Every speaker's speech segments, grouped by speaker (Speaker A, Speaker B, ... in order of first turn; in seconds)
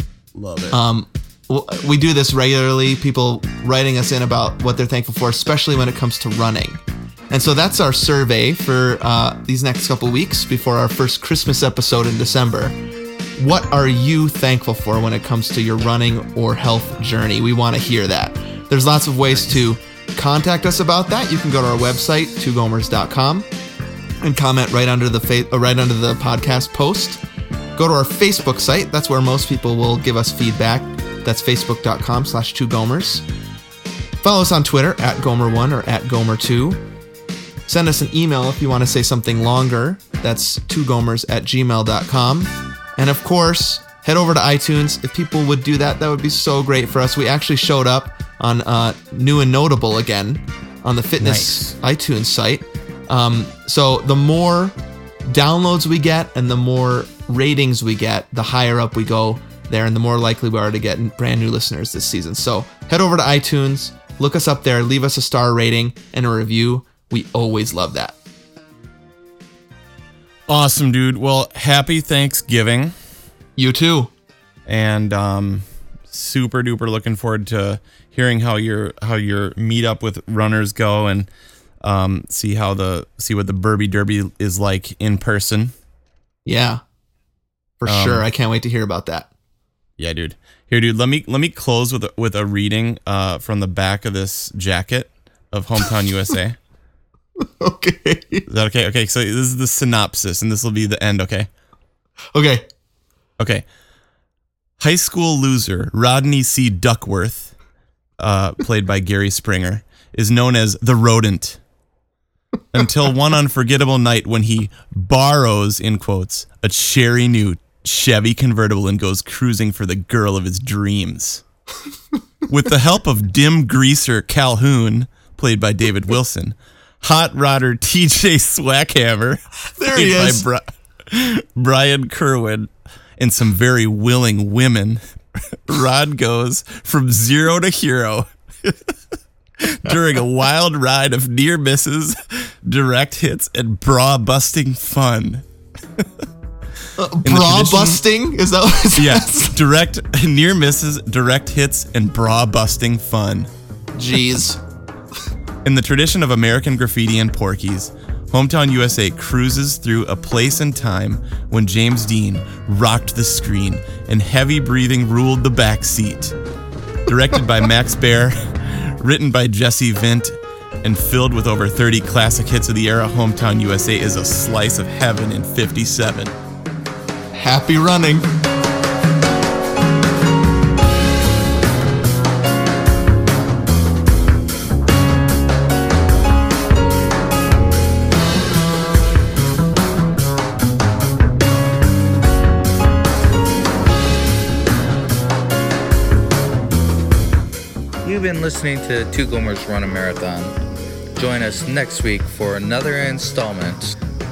Speaker A: 0.3-0.8, 51.2-51.7, 70.5-72.9, 74.7-81.3, 81.8-85.7, 87.8-88.2, 90.0-96.6, 98.5-101.5, 103.4-103.6, 104.8-107.5, 108.2-111.6, 112.7-121.4, 122.5-138.9, 139.6-145.4, 147.2-148.0, 148.9-153.5, 155.6-166.3, 167.1-176.3
Speaker B: 0.7-12.8, 13.4-23.5, 24.2-27.2, 27.8-33.2, 34.2-36.8, 37.7-54.7, 55.3-68.1, 73.6-74.1, 86.5-86.8, 87.8-89.3, 97.4-98.5, 102.3-102.7, 129.8-130.4, 147.0-149.5, 153.9-154.6, 177.3-178.3
Speaker C: 198.0-200.5, 201.2-203.9